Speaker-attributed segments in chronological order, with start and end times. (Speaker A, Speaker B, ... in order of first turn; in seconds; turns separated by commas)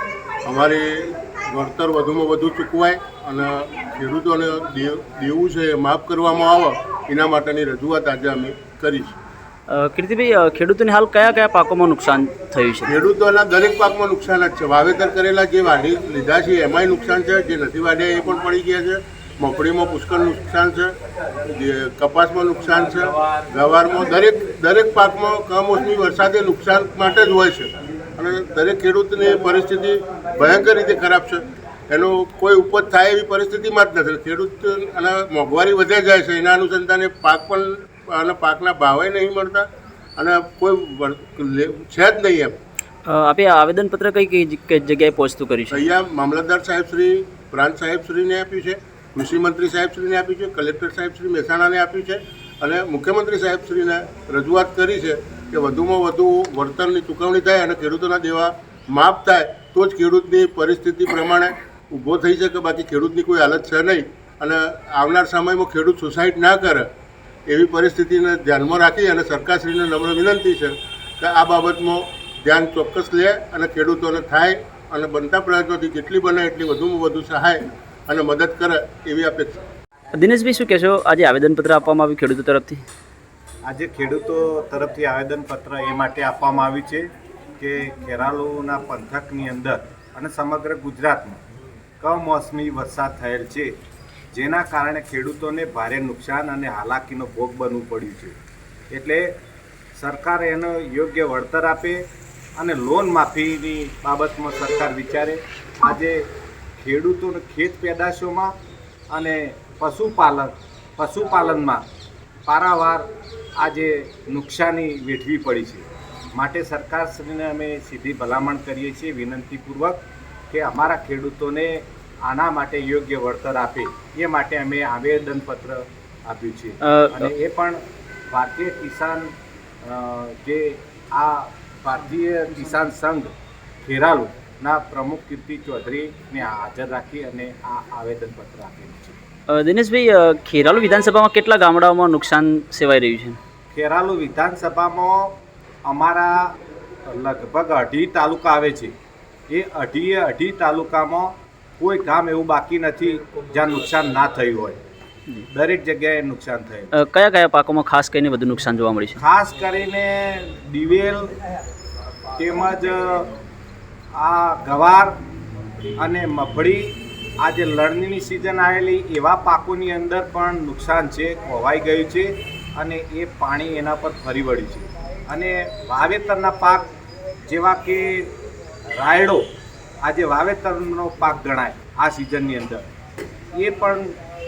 Speaker A: 0.5-9.2, Speaker B: 9.7-12.9, Speaker A: 12.8-20.9, Speaker A: 21.4-42.5, Speaker B: 43.0-45.9, Speaker A: 45.7-66.8, Speaker A: 67.5-79.5, Speaker B: 80.2-82.8, Speaker C: 83.7-91.4, Speaker C: 92.0-93.7, Speaker C: 94.3-98.4, Speaker C: 98.9-99.3, Speaker C: 100.0-102.0, Speaker C: 102.6-106.2, Speaker C: 106.8-108.5, Speaker C: 109.1-111.8, Speaker C: 112.5-133.3, Speaker B: 126.8-127.3, Speaker C: 133.8-139.2, Speaker B: 139.5-143.4, Speaker C: 143.7-146.4, Speaker C: 147.1-148.9, Speaker C: 149.5-154.8, Speaker C: 155.5-156.9, Speaker B: 156.9-159.2, Speaker C: 159.2-161.3, Speaker C: 162.3-163.3, Speaker C: 164.2-165.2, Speaker C: 166.0-176.9, Speaker C: 177.5-178.3, Speaker C: 179.0-179.4, Speaker C: 180.0-182.9, Speaker C: 183.6-184.2